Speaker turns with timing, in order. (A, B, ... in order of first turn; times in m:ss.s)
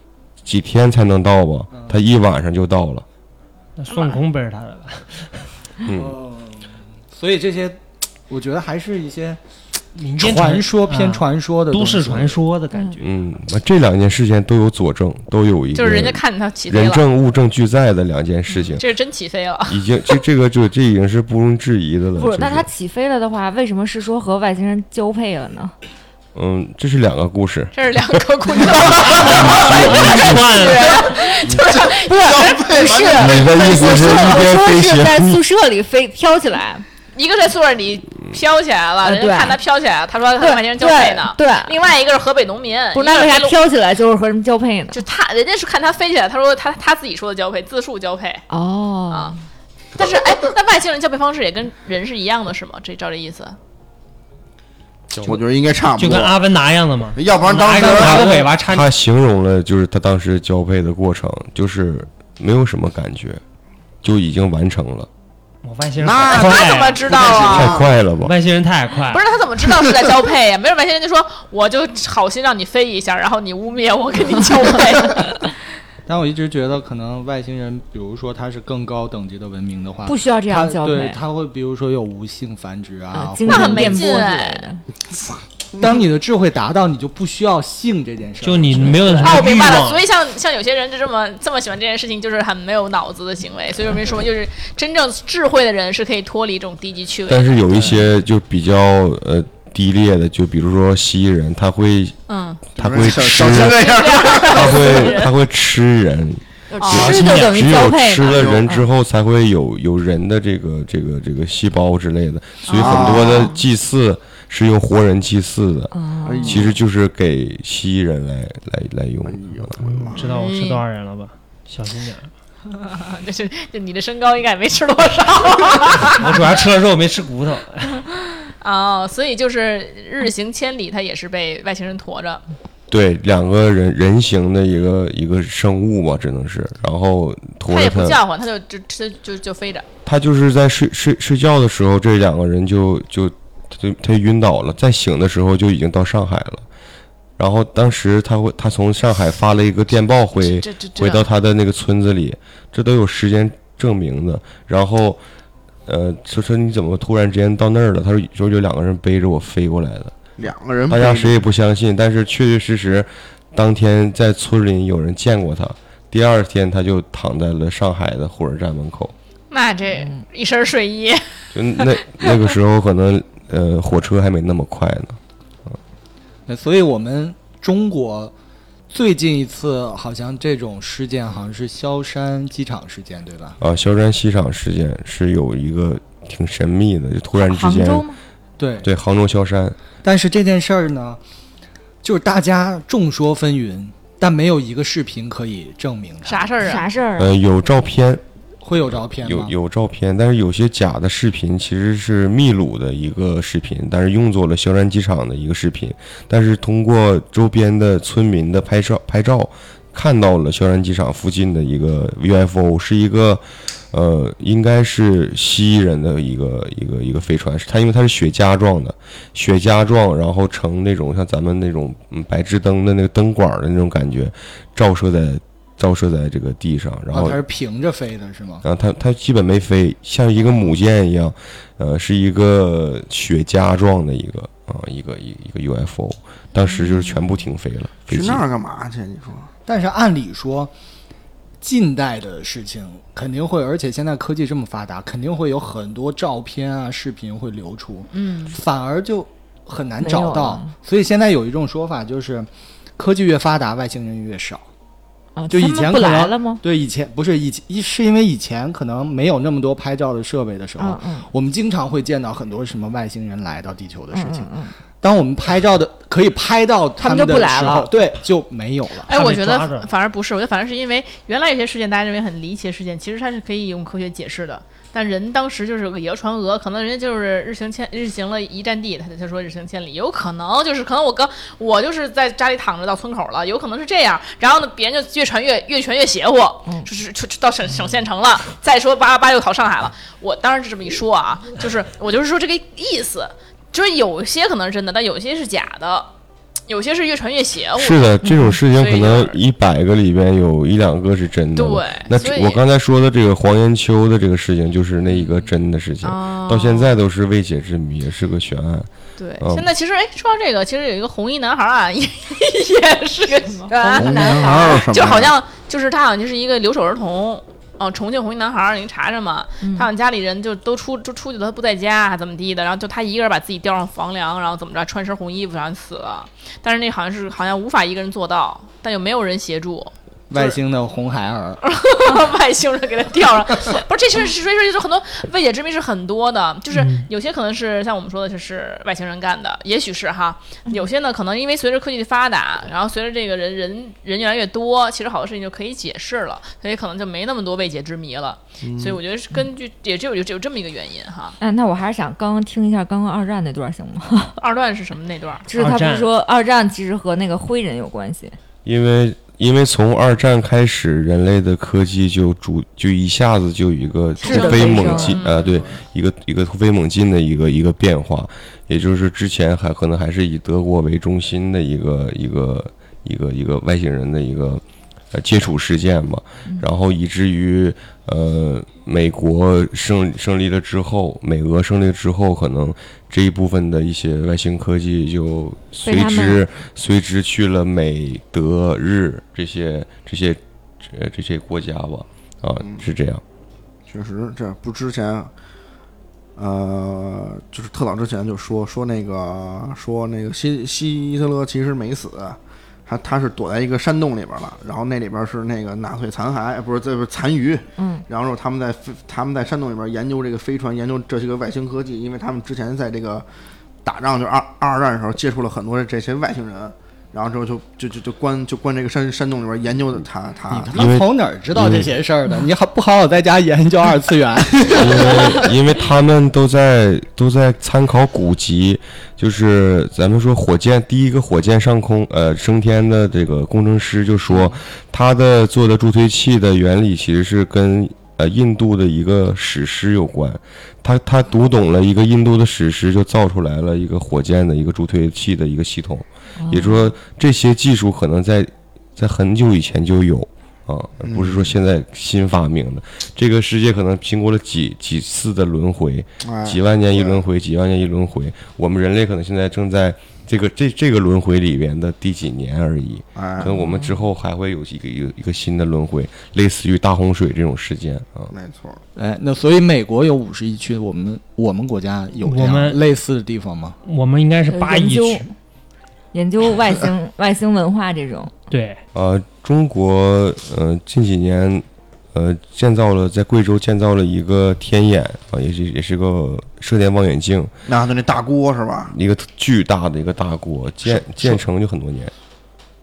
0:00.4-0:03.0 A
0:01.7-0:02.0 B
0:03.8-0:05.5 C
0:03.9-0:04.2 D
0:05.8-0:06.2 A
0:05.9-0:09.4 B
0:10.0-0:13.2 C
0:10.2-0:12.4 B
0:13.0-0:18.8 A
0:15.7-0:17.0 D
0:18.8-0:19.8 D
0:19.7-0:22.6 A
0:22.2-0:25.7 E
0:26.3-0:27.8 A
0:27.7-0:33.3 D
0:28.6-0:30.6 A
0:29.2-0:31.2 C
0:31.5-0:34.3 F
0:32.1-0:36.8 E
0:33.2-0:35.4 A
0:37.1-0:43.6 D
0:39.0-0:39.6 E
0:40.4-0:41.7 E
0:42.9-0:45.0 E
0:44.9-0:48.4 D
0:48.5-0:49.4 E
0:49.1-0:49.4 D
0:49.9-0:53.6 D
0:55.2-0:56.4 F
0:56.0-0:58.9 C
0:57.2-0:58.4 F
0:57.9-1:03.4 A
1:04.0-1:05.1 A
1:05.6-1:07.4 C
1:06.0-1:07.9 F
1:06.2-1:07.8 D
1:07.4-1:08.3 A
1:08.2-1:09.2 C
1:09.1-1:15.5 D
1:16.1-1:24.1 B
1:20.0-1:21.2 E
1:23.1-1:24.8 E
1:23.4-1:24.7 D
1:25.8-1:29.4 B
1:28.4-1:30.0 C
1:29.1-1:37.6 D
1:37.3-1:42.2 A
1:37.7-1:38.0 F
1:42.3-1:42.6 D
1:42.8-1:45.2 F
1:42.8-1:43.9 A
1:43.5-1:45.3 D
1:44.5-1:59.8 A
1:46.7-1:47.3 D
1:46.8-1:48.9 E
1:48.2-1:48.6 F
1:52.6-1:53.6 D
1:52.7-1:53.5 F
1:53.0-1:53.6 E
1:55.9-1:56.7 E
1:56.2-1:56.7 F
1:59.2-2:00.3 F
1:59.8-2:02.3 C
2:00.2-2:00.8 D
2:02.7-2:06.3 D
2:06.0-2:08.0 C
2:08.6-2:12.4 D
2:12.9-2:18.2 A
2:17.6-2:19.9 D
2:20.0-2:26.6 A
2:27.4-2:35.2 A
2:30.4-2:31.3 D
2:35.9-2:40.3 A
2:40.4-2:41.4 F
2:40.9-2:49.1 A
2:49.5-2:51.2 D
2:51.5-2:55.2 A
2:56.5-2:58.3 B
2:58.9-3:03.6 B
3:03.6-3:08.1 A
3:07.4-3:08.2 E
3:08.6-3:08.9 B
3:08.8-3:09.8 A
3:10.0-3:11.2 B
3:12.0-3:16.6 B
3:16.2-3:16.9 D
3:16.6-3:17.4 E
3:17.2-3:18.2 A
3:18.6-3:19.5 B
3:19.1-3:47.4 A
3:47.1-3:48.6 B
3:48.6-3:58.4 A
3:58.1-3:59.5 F
3:59.6-4:00.7 B
4:01.6-4:14.6 B
4:08.2-4:08.5 D
4:10.0-4:10.7 E
4:15.4-4:16.6 E
4:15.5-4:29.1 B
4:20.8-4:21.3 E
4:24.1-4:24.7 E
4:27.0-4:27.9 E
4:29.1-4:56.1 D
4:29.1-4:29.9 C
4:56.7-4:59.4 D
4:57.8-5:09.7 A
4:58.2-4:58.6 E
5:01.6-5:02.6 D
5:05.1-5:05.5 B
5:06.0-5:07.0 D
5:09.2-5:30.6 D
5:13.7-5:14.9 E
5:14.0-5:15.3 F
5:19.6-5:19.9 E
5:30.3-5:31.6 B
5:31.6-5:51.4 D
5:36.7-5:37.1 C
5:48.6-5:49.0 F
5:51.4-5:54.4 E
5:54.4-5:55.5 D
5:55.5-5:58.4 E
5:55.5-5:56.1 C
5:58.6-6:33.2 A
6:04.2-6:05.2 E
6:04.3-6:05.1 F
6:04.4-6:05.6 D
6:25.8-6:26.4 E
6:33.9-6:35.3 F
6:36.4-6:53.3 F
6:47.8-6:48.0 E
6:53.8-7:00.9 F
7:00.5-7:05.5 B
7:00.7-7:01.9 A
7:04.7-7:48.3 A
7:26.4-7:26.9 E
7:31.0-7:31.5 F
7:36.2-7:37.2 F
7:43.2-7:43.6 F
7:43.4-7:44.0 E
7:48.3-7:48.8 F
7:49.0-7:53.8 B
7:52.2-7:52.8 C
7:53.8-7:55.3 C
7:54.5-7:55.3 E
7:56.1-7:58.3 E
7:58.5-7:58.8 C
7:58.9-8:07.5 A
8:07.7-8:08.9 F
8:08.9-8:12.1 A